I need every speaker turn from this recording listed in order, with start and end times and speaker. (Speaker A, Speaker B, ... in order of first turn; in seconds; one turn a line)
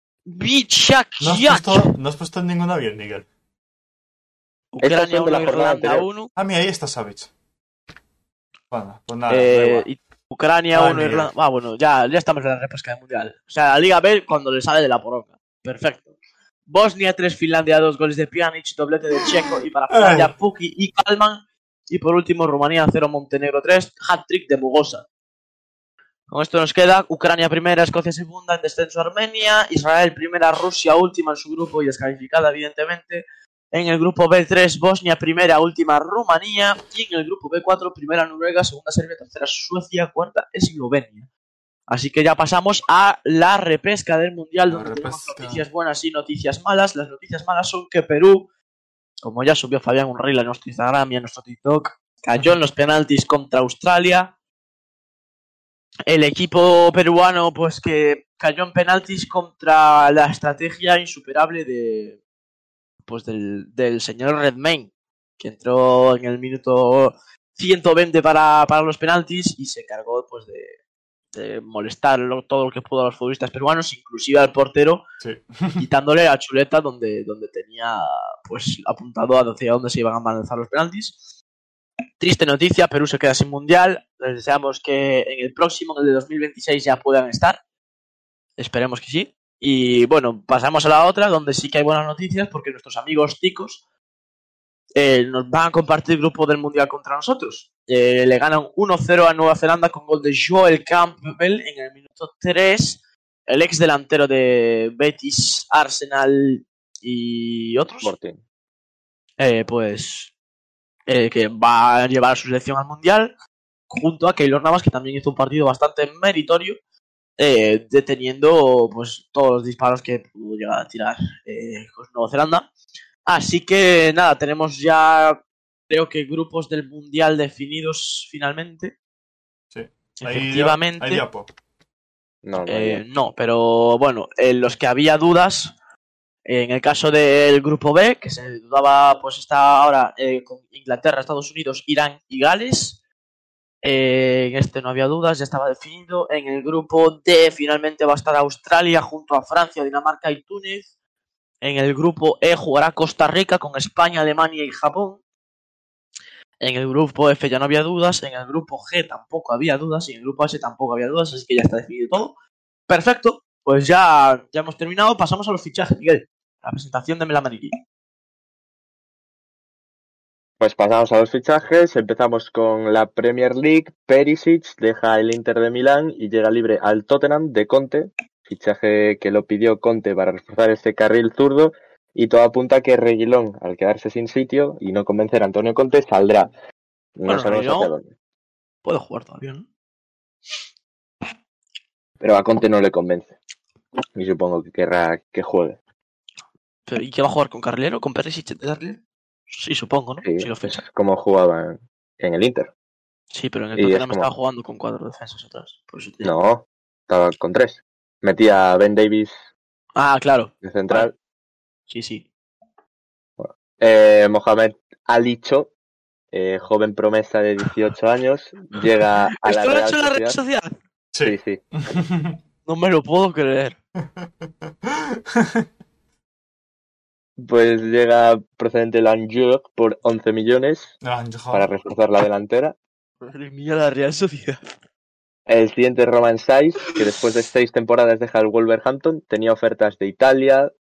Speaker A: 0.3-1.9
Speaker B: 1.2-3.3
Speaker A: 4.7-6.3
Speaker C: 4.8-6.1
Speaker B: 6.4-7.3
Speaker B: 8.7-9.9
Speaker A: 9.3-16.1
Speaker B: 10.7-11.3
Speaker A: 16.7-25.1
Speaker B: 19.9-20.3
Speaker A: 26.3-41.3
Speaker A: 41.9-48.5
Speaker B: 44.7-45.7
Speaker A: 49.2-54.3
Speaker A: 56.1-62.2
Speaker A: 63.1-70.8
Speaker A: 71.3-75.0
Speaker B: 75.2-75.8
Speaker A: 75.8-81.3
Speaker A: 82.2-87.6
Speaker A: 88.6-93.8
Speaker A: 95.0-108.1
Speaker C: 108.0-108.4
Speaker A: 109.4-110.3
Speaker A: 111.1-113.3
Speaker A: 113.9-116.8
Speaker A: 117.4-122.7
Speaker A: 123.3-129.0
Speaker B: 129.7-131.5
Speaker A: 130.2-131.2
Speaker C: 132.4-133.0
Speaker A: 132.7-135.7
Speaker A: 136.5-143.0
Speaker A: 143.8-150.9
Speaker A: 151.6-155.2
Speaker A: 156.6-162.3
Speaker A: 162.9-167.8
Speaker C: 170.6-186.5
Speaker C: 187.2-188.1
Speaker A: 187.3-187.9
Speaker A: 188.8-189.7
Speaker C: 192.2-193.3
Speaker C: 194.2-195.8
Speaker A: 196.9-200.8
Speaker C: 200.2-202.7
Speaker A: 203.3-206.3
Speaker C: 203.8-204.3
Speaker C: 206.2-209.4
Speaker A: 210.0-211.1
Speaker C: 210.6-211.1
Speaker A: 211.9-212.3
Speaker C: 213.4-215.7
Speaker C: 216.3-220.4
Speaker A: 219.4-220.7
Speaker B: 221.1-222.4
Speaker C: 221.2-221.6
Speaker A: 222.7-223.8
Speaker B: 224.0-225.7
Speaker C: 227.4-230.9
Speaker B: 231.0-231.7
Speaker C: 231.5-232.8
Speaker A: 233.2-234.6
Speaker C: 235.5-240.7